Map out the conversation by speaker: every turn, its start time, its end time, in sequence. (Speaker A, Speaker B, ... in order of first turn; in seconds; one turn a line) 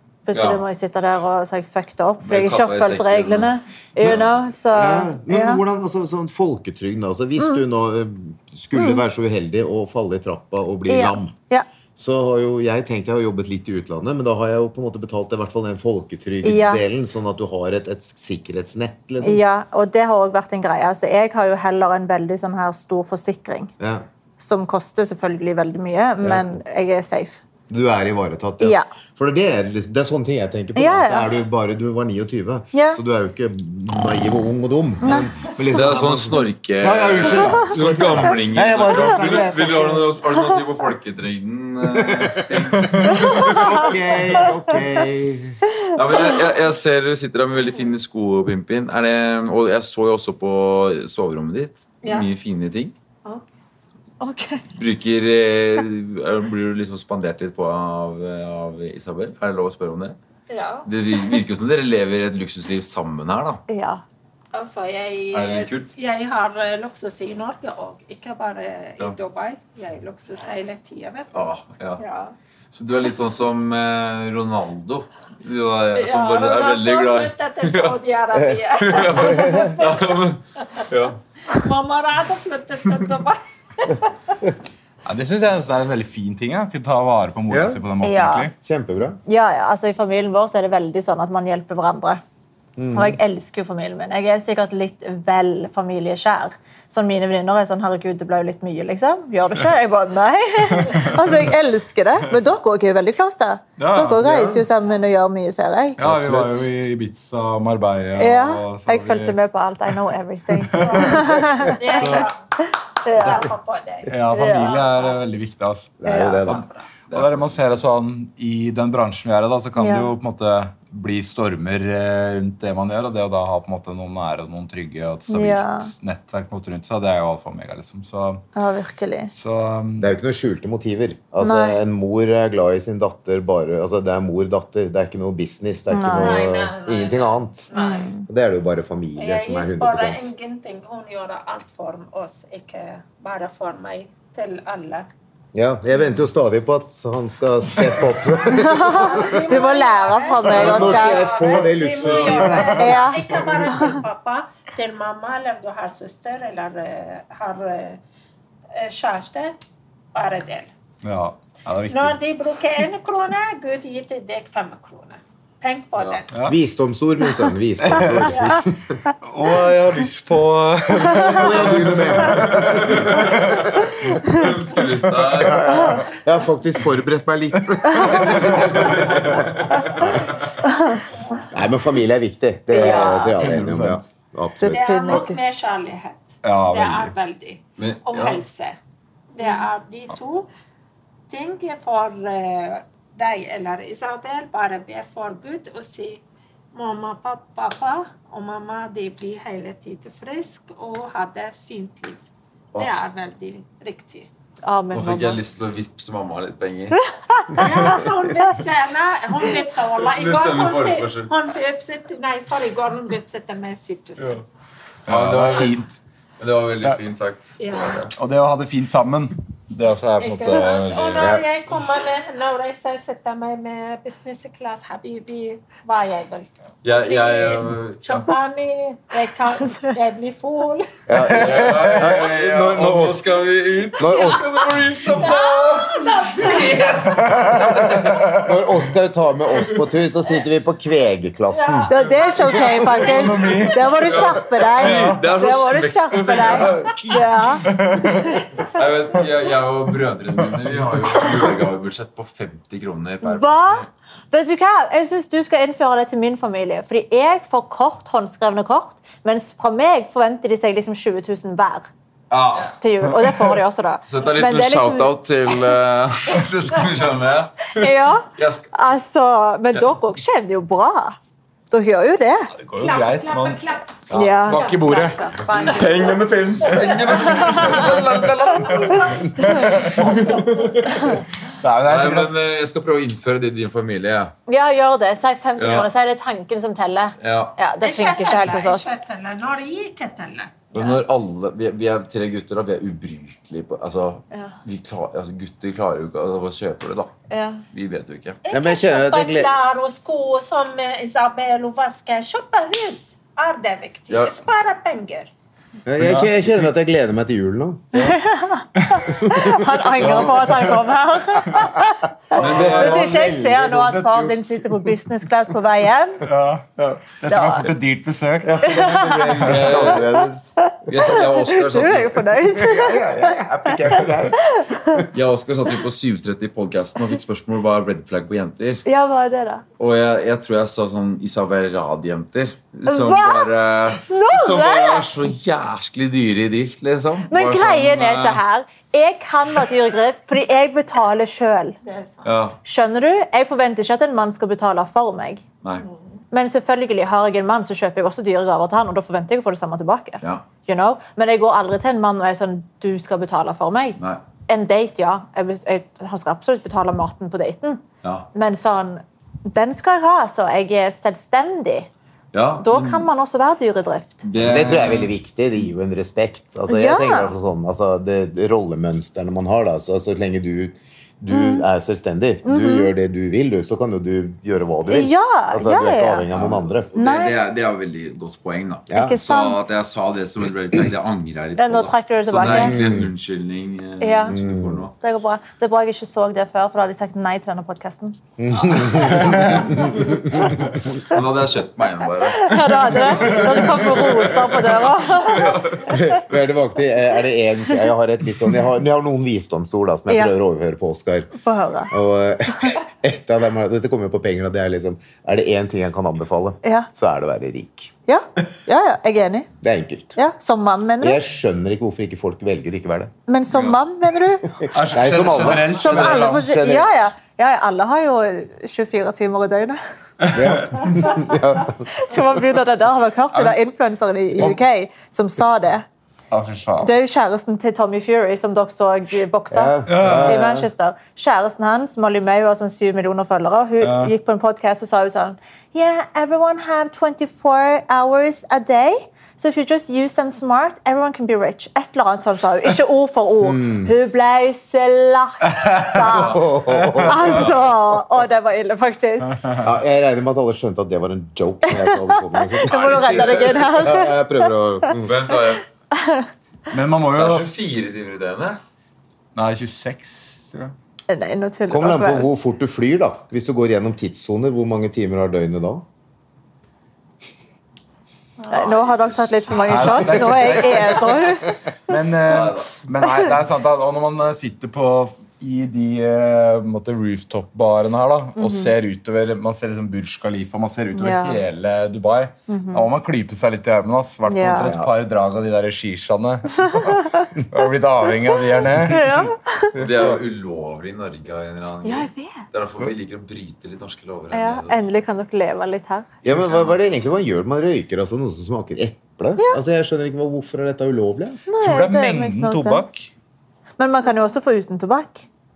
Speaker A: 0.3-5.6
Speaker B: 0.3-0.6
Speaker B: 2.2-4.4
Speaker C: 4.7-11.3
Speaker A: 8.7-9.0
Speaker A: 10.9-11.7
Speaker C: 12.0-19.4
Speaker A: 16.4-16.8
Speaker A: 19.2-23.7
Speaker C: 23.8-24.1
Speaker A: 24.4-27.4
Speaker C: 27.7-40.1
Speaker A: 28.6-28.9
Speaker A: 30.8-31.3
Speaker A: 32.7-33.0
Speaker B: 35.7-44.0
Speaker C: 41.9-42.4
Speaker D: 42.8-43.3
Speaker C: 43.0-45.6
Speaker A: 43.5-43.8
Speaker B: 46.0-52.9
Speaker E: 52.0-52.3
Speaker A: 54.2-54.6
Speaker B: 54.8-60.2
Speaker E: 60.5-60.9
Speaker B: 60.9-63.6
Speaker A: 63.7-64.0
Speaker E: 64.5-71.4
Speaker B: 65.3-65.9
Speaker B: 71.3-72.0
Speaker E: 72.0-72.3
Speaker B: 72.7-78.0
Speaker E: 75.9-80.8
Speaker B: 78.8-81.2
Speaker C: 79.3-79.8
Speaker E: 81.5-84.4
Speaker D: 85.0-88.5
Speaker C: 87.5-87.8
Speaker A: 88.0-88.5
Speaker C: 88.6-89.2
Speaker A: 89.3-92.2
Speaker C: 92.8-93.2
Speaker A: 92.9-106.0
Speaker D: 100.8-101.5
Speaker D: 103.8-104.2
Speaker C: 104.2-104.7
Speaker D: 106.0-109.4
Speaker C: 106.0-106.7
Speaker A: 108.2-112.2
Speaker D: 110.5-111.3
Speaker E: 110.8-112.4
Speaker D: 111.9-112.3
Speaker A: 113.0-113.4
Speaker E: 113.1-115.4
Speaker D: 114.1-128.5
Speaker A: 114.3-114.7
Speaker C: 116.0-116.7
Speaker A: 116.1-116.5
Speaker E: 116.4-116.9
Speaker B: 117.1-117.8
Speaker A: 119.8-120.1
Speaker A: 125.3-125.9
Speaker A: 128.6-129.3
Speaker D: 129.3-130.1
Speaker C: 130.0-137.7
Speaker A: 131.4-131.8
Speaker A: 135.9-136.4
Speaker E: 136.2-138.2
Speaker A: 137.7-138.3
Speaker C: 138.3-140.3
Speaker E: 139.2-145.1
Speaker C: 145.5-149.6
Speaker A: 148.5-151.3
Speaker E: 148.8-158.0
Speaker C: 150.4-153.3
Speaker A: 152.7-154.0
Speaker E: 158.7-159.6
Speaker E: 160.1-160.7
Speaker D: 161.0-162.2
Speaker E: 161.9-166.4
Speaker B: 166.0-166.2
Speaker D: 166.3-166.6
Speaker C: 166.5-169.0
Speaker D: 167.8-168.3
Speaker E: 168.3-168.6
Speaker D: 169.2-174.2
Speaker C: 171.1-173.9
Speaker B: 172.6-176.0
Speaker D: 174.8-175.8
Speaker C: 175.4-180.2
Speaker D: 177.9-180.2
Speaker B: 178.7-180.3
Speaker A: 180.6-181.0
Speaker C: 181.5-185.1
Speaker A: 182.7-183.4
Speaker D: 183.4-184.1
Speaker A: 184.6-185.4
Speaker E: 184.6-188.8
Speaker D: 186.4-187.1
Speaker B: 187.8-188.4
Speaker E: 189.3-190.5
Speaker E: 191.3-196.2
Speaker E: 196.7-202.2
Speaker E: 202.8-204.3
Speaker A: 204.7-205.4
Speaker B: 204.9-207.0
Speaker A: 207.3-207.6
Speaker E: 207.6-214.4
Speaker B: 210.0-211.3
Speaker B: 215.1-215.8
Speaker D: 215.1-216.0
Speaker B: 216.4-218.1
Speaker E: 217.6-218.1
Speaker D: 218.2-221.4
Speaker E: 220.2-230.9
Speaker C: 221.2-221.4
Speaker B: 226.8-228.3
Speaker C: 231.1-233.3
Speaker B: 231.2-238.2
Speaker D: 231.3-232.2
Speaker C: 234.0-234.6
Speaker E: 234.1-234.4
Speaker E: 235.2-237.3
Speaker D: 237.2-238.5
Speaker C: 238.4-241.9
Speaker E: 241.5-243.9
Speaker A: 241.9-247.7
Speaker D: 242.6-245.3
Speaker B: 243.9-246.8
Speaker C: 246.5-247.2
Speaker D: 247.6-248.4
Speaker B: 248.7-253.9
Speaker D: 250.5-251.5
Speaker A: 253.2-261.9
Speaker B: 262.3-262.8
Speaker A: 262.8-265.1
Speaker D: 263.1-263.5
Speaker B: 264.0-268.7
Speaker A: 267.8-271.2
Speaker A: 271.7-272.5
Speaker D: 272.6-275.7
Speaker E: 272.8-275.0
Speaker A: 274.1-276.2
Speaker B: 275.6-279.2
Speaker E: 276.6-277.9
Speaker A: 277.2-277.9
Speaker D: 277.8-278.2
Speaker D: 278.8-280.7
Speaker E: 278.9-281.1
Speaker D: 281.6-282.3
Speaker B: 281.9-284.3
Speaker A: 284.5-288.9
Speaker B: 285.6-285.9
Speaker B: 287.2-287.6
Speaker E: 287.8-290.6
Speaker B: 290.7-297.1
Speaker A: 297.3-297.6
Speaker B: 297.7-298.4
Speaker E: 298.4-305.3
Speaker C: 298.5-299.5
Speaker B: 304.1-304.4
Speaker C: 305.9-308.0
Speaker D: 306.0-306.7
Speaker A: 307.9-316.2
Speaker D: 308.8-309.2
Speaker C: 309.1-309.6
Speaker B: 310.0-310.7
Speaker C: 312.3-314.3
Speaker B: 312.4-313.1
Speaker D: 312.4-313.1
Speaker D: 314.1-314.3
Speaker D: 316.2-319.9
Speaker A: 317.3-317.7
Speaker C: 318.4-320.6
Speaker A: 318.7-319.3
Speaker B: 319.4-320.1
Speaker A: 320.6-325.0
Speaker B: 320.9-322.2
Speaker C: 322.4-325.1
Speaker B: 325.1-328.8
Speaker A: 328.9-329.6
Speaker B: 329.8-338.4
Speaker A: 332.9-333.5
Speaker A: 334.0-335.1
Speaker A: 337.3-341.8
Speaker E: 341.8-342.3
Speaker B: 342.2-342.6
Speaker A: 342.6-345.4
Speaker E: 345.8-346.2
Speaker A: 346.3-357.8
Speaker B: 354.0-354.2
Speaker B: 358.0-358.3
Speaker A: 358.3-361.9
Speaker B: 362.3-363.1
Speaker A: 362.6-364.2
Speaker B: 364.2-365.1
Speaker C: 364.4-376.9
Speaker A: 366.7-367.3
Speaker A: 371.3-371.7
Speaker A: 372.4-372.9
Speaker A: 374.9-376.3
Speaker B: 376.3-384.9
Speaker A: 377.0-377.4
Speaker C: 378.9-379.2
Speaker A: 379.0-379.6
Speaker A: 381.6-382.8
Speaker C: 382.4-383.1
Speaker A: 384.0-384.4
Speaker C: 384.3-384.9
Speaker A: 385.0-388.2
Speaker C: 388.4-390.8
Speaker E: 388.6-389.1
Speaker D: 389.2-389.8
Speaker B: 391.1-395.9
Speaker A: 392.3-396.0
Speaker C: 395.9-401.3
Speaker A: 401.4-401.9
Speaker C: 401.9-407.9
Speaker A: 402.5-402.8
Speaker A: 406.6-406.9
Speaker A: 408.1-409.5
Speaker C: 409.6-410.2
Speaker A: 410.2-411.2
Speaker C: 411.0-413.1
Speaker A: 413.3-414.4
Speaker B: 413.5-413.8
Speaker C: 414.5-417.1
Speaker D: 414.7-416.4
Speaker B: 415.0-416.2
Speaker A: 415.7-419.8
Speaker D: 420.2-420.9
Speaker C: 420.3-421.9
Speaker A: 420.9-421.4
Speaker A: 422.0-425.9
Speaker D: 423.3-423.6
Speaker D: 426.3-426.9
Speaker A: 426.8-446.4
Speaker C: 429.5-430.7
Speaker D: 429.9-430.4
Speaker D: 433.8-434.1
Speaker C: 443.4-443.9
Speaker D: 445.5-446.1
Speaker B: 446.1-446.4
Speaker C: 446.2-447.5
Speaker D: 446.7-447.5
Speaker A: 447.1-449.4
Speaker D: 449.3-449.7
Speaker C: 449.6-455.2
Speaker A: 451.7-454.9
Speaker B: 452.7-453.7
Speaker B: 455.1-455.6
Speaker A: 455.9-456.3
Speaker D: 456.7-457.5
Speaker B: 457.1-458.6
Speaker D: 459.4-460.7
Speaker A: 461.1-462.3
Speaker C: 461.7-465.9
Speaker E: 468.4-469.7
Speaker A: 468.5-471.6
Speaker D: 469.6-489.2
Speaker B: 472.3-472.7
Speaker A: 478.4-478.7
Speaker A: 480.9-481.4
Speaker A: 482.5-482.9
Speaker A: 484.3-484.7
Speaker C: 484.5-484.9
Speaker A: 488.8-489.8
Speaker C: 489.8-490.2
Speaker B: 489.8-494.8
Speaker A: 491.8-492.4
Speaker A: 494.3-496.1
Speaker C: 496.2-501.4
Speaker B: 496.3-496.7
Speaker A: 501.5-502.9
Speaker D: 501.6-503.1
Speaker A: 503.8-505.3